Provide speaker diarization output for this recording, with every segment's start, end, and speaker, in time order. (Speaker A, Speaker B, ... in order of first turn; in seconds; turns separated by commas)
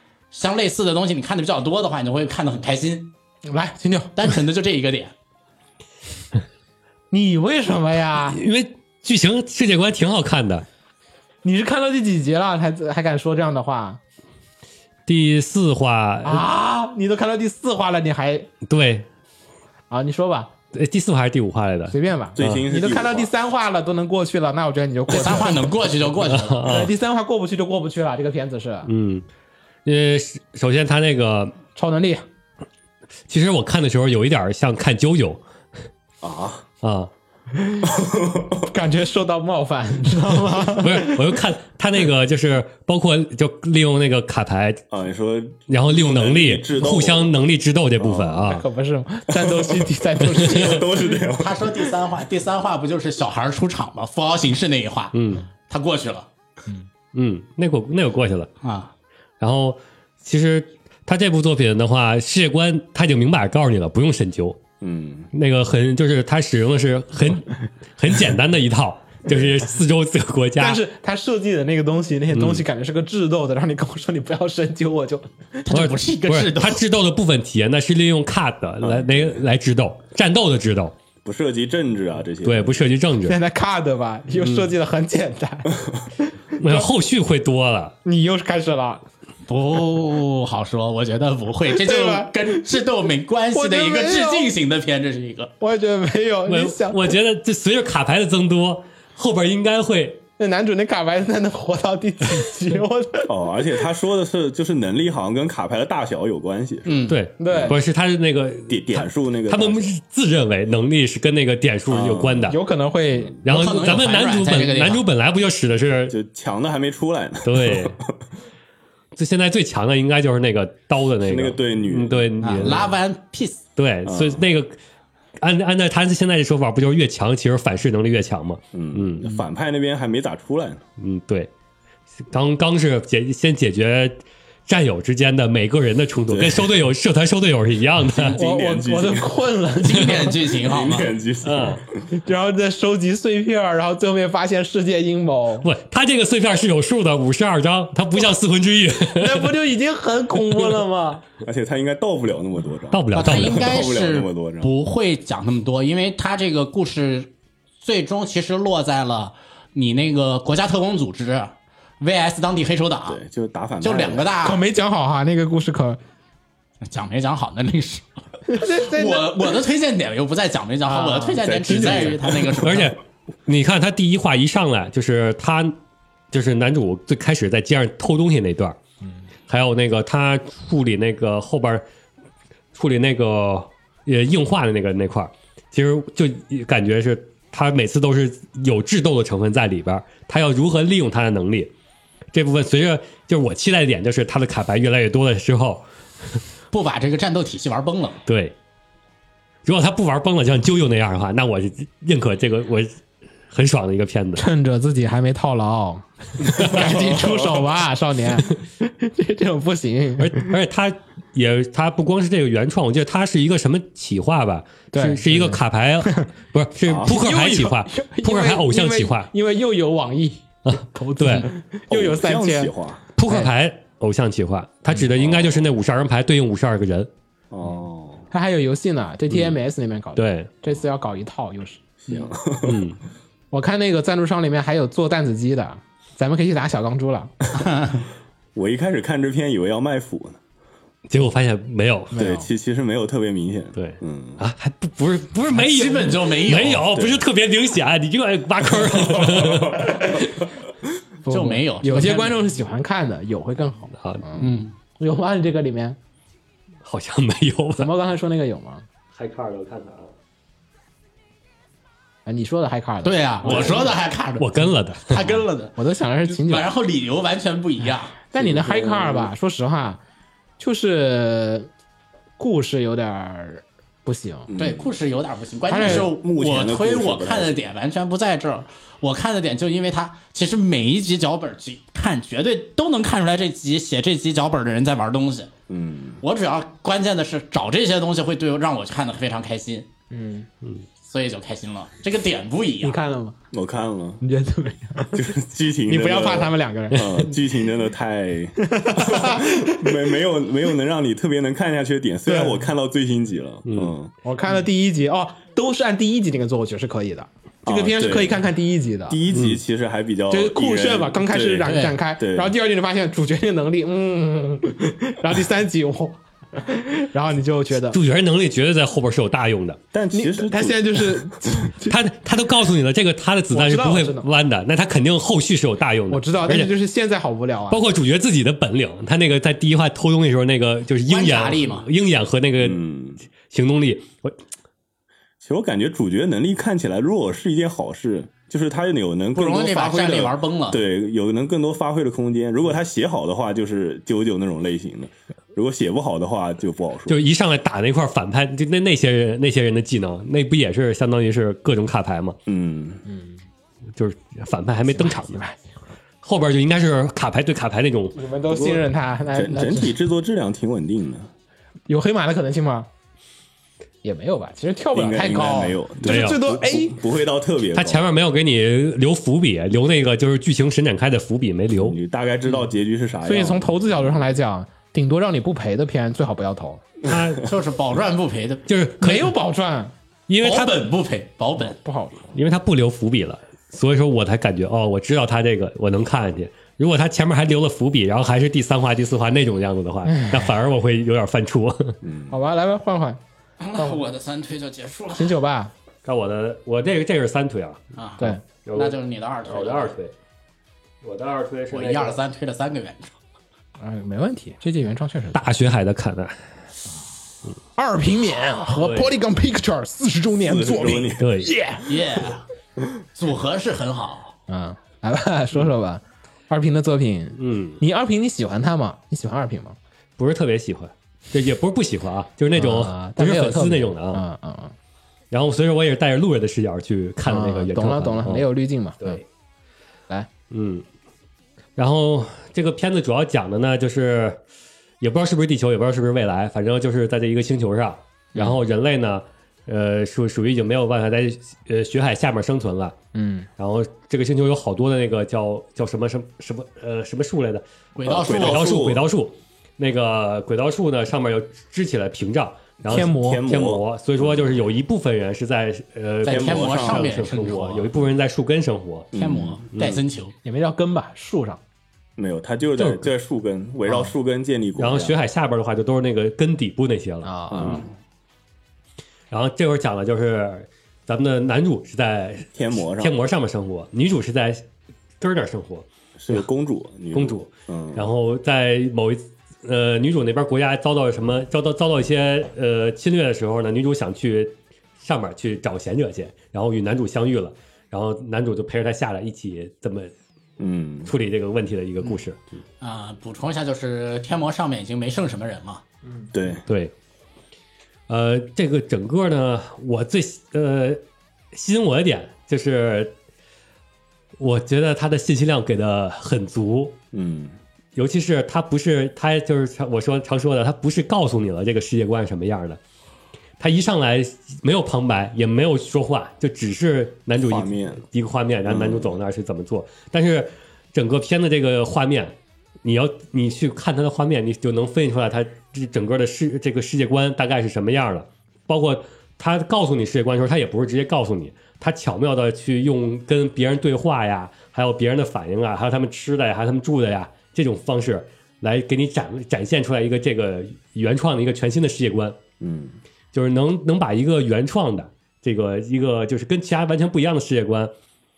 Speaker A: 0.3-3.1, Speaker B: 3.5-4.1, Speaker A: 4.2-5.1, Speaker B: 7.1-8.4, Speaker C: 8.3-10.7, Speaker B: 11.4-14.0, Speaker C: 15.1-16.5, Speaker B: 16.2-18.5, Speaker C: 18.7-19.1, Speaker B: 19.9-20.5, Speaker C: 20.7-22.6, Speaker B: 21.9-25.7, Speaker D: 22.4-23.3, Speaker A: 25.1-26.6, Speaker C: 26.2-26.9, Speaker B: 26.6-28.9, Speaker C: 28.9-29.3, Speaker C: 29.9-31.6, Speaker B: 31.8-32.2, Speaker C: 33.3-35.4, Speaker D: 36.2-36.6, Speaker C: 36.8-37.1, Speaker B: 37.6-37.9, Speaker D: 37.9-38.6, Speaker B: 38.6-41.2, Speaker C: 40.8-44.8, Speaker D: 44.9-47.4, Speaker C: 45.7-48.6, Speaker D: 48.0-48.6, Speaker B: 48.5-50.8, Speaker D: 49.3-52.0, Speaker A: 50.6-55.2, Speaker C: 55.1-55.5, Speaker A: 55.7-56.3, Speaker C: 57.1-58.5, Speaker A: 58.6-58.9, Speaker C: 59.4-64.6, Speaker D: 64.8-65.3, Speaker C: 65.3-70.8, Speaker B: 70.6-75.6, Speaker C: 72.3-72.7, Speaker A: 75.7-76.8, Speaker C: 75.7-81.0, Speaker D: 78.8-79.4, Speaker D: 81.2-82.9, Speaker C: 82.4-83.4, Speaker B: 83.2-86.9, Speaker C: 84.4-84.7, Speaker C: 86.6-88.0, Speaker B: 88.0-89.0, Speaker A: 89.5-95.5, Speaker B: 91.8-92.7, Speaker B: 93.5-94.5, Speaker B: 95.6-97.2, Speaker C: 96.5-100.2, Speaker B: 100.4-103.3, Speaker D: 103.3-107.0, Speaker A: 106.9-107.2, Speaker C: 107.1-112.6, Speaker B: 107.4-107.8, Speaker D: 107.5-107.8, Speaker D: 108.7-109.9, Speaker D: 111.9-112.6, Speaker B: 112.5-113.3, Speaker C: 113.4-116.1, Speaker A: 113.5-115.0, Speaker D: 116.1-118.1, Speaker C: 117.4-118.0, Speaker C: 119.2-122.9, Speaker D: 121.2-122.9, Speaker A: 122.4-123.6, Speaker C: 123.8-124.8, Speaker D: 124.0-124.5, Speaker C: 125.4-129.4, Speaker D: 128.7-130.8, Speaker C: 131.0-131.5, Speaker C: 132.3-138.4, Speaker D: 136.3-136.8, Speaker D: 138.0-139.3, Speaker B: 138.4-140.3, Speaker A: 139.8-141.1, Speaker D: 140.5-142.0, Speaker C: 141.4-141.8, Speaker B: 142.2-145.7, Speaker C: 145.6-149.5, Speaker B: 149.1-151.2, Speaker D: 151.4-154.7, Speaker C: 152.9-153.7, Speaker A: 153.1-163.2, Speaker D: 163.1-164.4, Speaker A: 163.8-164.6, Speaker B: 164.4-166.0, Speaker A: 166.8-172.9, Speaker B: 168.5-169.6, Speaker B: 170.9-172.1, Speaker D: 171.4-172.7, Speaker C: 172.6-175.8, Speaker C: 176.3-178.8, Speaker C: 179.5-181.8, Speaker C: 182.7-191.7, Speaker C: 192.3-195.9, Speaker A: 196.7-198.2, Speaker C: 198.3-198.6, Speaker C: 199.7-203.0, Speaker C: 203.5-204.5, Speaker B: 204.4-210.5, Speaker D: 206.6-207.5, Speaker C: 210.2-219.3, Speaker B: 214.9-216.2, Speaker D: 216.8-217.2, Speaker B: 217.0-222.7, Speaker C: 220.7-221.5, Speaker D: 221.9-223.0, Speaker C: 223.2-227.1, Speaker D: 225.1-225.7, Speaker D: 227.5-228.3, Speaker B: 228.3-231.8, Speaker C: 230.2-230.5, Speaker D: 232.1-232.9, Speaker C: 232.6-233.0, Speaker B: 233.5-237.3, Speaker A: 237.6-238.1, Speaker D: 238.6-240.4, Speaker C: 241.1-242.1, Speaker B: 242.1-242.5, Speaker D: 242.2-244.4, Speaker C: 243.8-249.9, Speaker A: 245.5-246.9, Speaker D: 246.9-247.3, Speaker D: 248.8-250.1, Speaker B: 249.9-250.2, Speaker B: 251.3-256.0, Speaker A: 251.3-252.4, Speaker A: 254.4-254.7, Speaker C: 256.8-257.9, Speaker B: 257.8-258.9, Speaker C: 259.1-260.1, Speaker B: 262.3-263.9, Speaker A: 263.0-268.2, Speaker C: 263.4-265.3, Speaker B: 265.8-266.7, Speaker B: 268.3-270.0, Speaker D: 268.3-269.3, Speaker B: 270.6-271.7, Speaker B: 272.4-274.5, Speaker D: 274.5-274.9, Speaker A: 274.6-285.5, Speaker B: 275.7-276.1, Speaker D: 275.8-277.7, Speaker D: 285.7-286.2, Speaker A: 286.2-289.9, Speaker B: 290.1-290.5, Speaker A: 291.0-293.0, Speaker B: 292.8-293.4, Speaker D: 293.5-294.2, Speaker B: 294.2-295.2, Speaker D: 295.1-304.1, Speaker B: 295.9-297.4, Speaker B: 298.6-300.0, Speaker B: 302.3-302.6, Speaker C: 303.7-303.9, Speaker B: 304.2-309.2, Speaker D: 307.6-308.4, Speaker D: 309.1-312.6, Speaker C: 309.3-309.6, Speaker B: 310.3-318.0, Speaker A: 311.7-312.0, Speaker C: 317.9-319.8, Speaker D: 319.9-321.7, Speaker B: 320.1-322.0, Speaker C: 321.9-326.7, Speaker B: 323.5-324.3, Speaker B: 326.1-327.8, Speaker C: 327.7-332.8, Speaker A: 331.1-331.9, Speaker D: 332.6-333.2, Speaker C: 333.5-334.4, Speaker D: 335.4-347.2, Speaker A: 339.4-340.8, Speaker C: 347.1-352.4, Speaker D: 352.5-353.0, Speaker B: 353.1-353.4, Speaker C: 353.9-355.4, Speaker B: 354.9-355.6, Speaker C: 356.2-358.2, Speaker B: 358.1-360.0, Speaker D: 358.5-361.3, Speaker B: 361.9-362.9, Speaker B: 364.0-367.0, Speaker D: 364.9-368.1, Speaker C: 366.1-366.4, Speaker C: 367.7-372.0, Speaker D: 371.7-374.2, Speaker B: 373.2-376.8, Speaker C: 377.1-377.5, Speaker A: 377.4-378.6, Speaker C: 378.7-379.3, Speaker B: 379.0-379.9, Speaker C: 380.3-380.8, Speaker A: 380.4-381.8, Speaker B: 381.7-382.3, Speaker C: 382.3-392.0, Speaker D: 392.0-392.4, Speaker B: 392.3-393.2, Speaker A: 393.6-395.4, Speaker B: 395.1-395.7, Speaker C: 396.1-397.8, Speaker A: 398.0-400.0, Speaker C: 398.6-400.1, Speaker C: 401.0-402.2, Speaker A: 401.7-403.1, Speaker B: 403.8-405.4, Speaker C: 405.3-406.4, Speaker B: 407.8-411.9, Speaker C: 408.7-409.2, Speaker D: 410.4-411.4, Speaker C: 411.2-411.5, Speaker A: 411.9-412.4, Speaker A: 413.2-414.3, Speaker B: 414.5-419.8, Speaker C: 417.4-417.8, Speaker C: 420.2-424.2, Speaker B: 422.6-424.7, Speaker C: 425.3-428.5, Speaker B: 427.3-429.2, Speaker C: 430.5-430.8, Speaker C: 431.8-434.4, Speaker C: 435.0-443.0, Speaker B: 443.1-443.5, Speaker C: 443.6-459.1, Speaker A: 447.9-448.9, Speaker D: 448.1-449.1, Speaker B: 452.9-453.4, Speaker D: 452.9-454.6, Speaker A: 456.2-457.9, Speaker D: 456.3-457.2, Speaker D: 459.1-459.6, Speaker A: 459.1-460.3, Speaker C: 459.7-460.0, Speaker B: 460.4-461.6, Speaker D: 462.2-465.2, Speaker C: 462.8-463.1, Speaker C: 464.8-467.8, Speaker B: 467.2-467.9, Speaker D: 467.5-467.9, Speaker C: 469.3-474.6, Speaker D: 472.5-473.2, Speaker C: 475.2-476.4, Speaker D: 476.2-478.1, Speaker C: 477.1-490.1, Speaker D: 490.6-491.1, Speaker C: 491.1-492.4, Speaker A: 492.8-495.8, Speaker D: 496.3-496.6, Speaker C: 496.7-496.9, Speaker C: 498.1-501.0, Speaker C: 501.5-503.1, Speaker C: 504.4-507.0, Speaker D: 507.1-507.6, Speaker C: 508.0-512.8, Speaker C: 513.6-542.4, Speaker D: 517.4-518.0, Speaker D: 518.6-519.2, Speaker D: 542.6-543.0, Speaker C: 543.3-547.9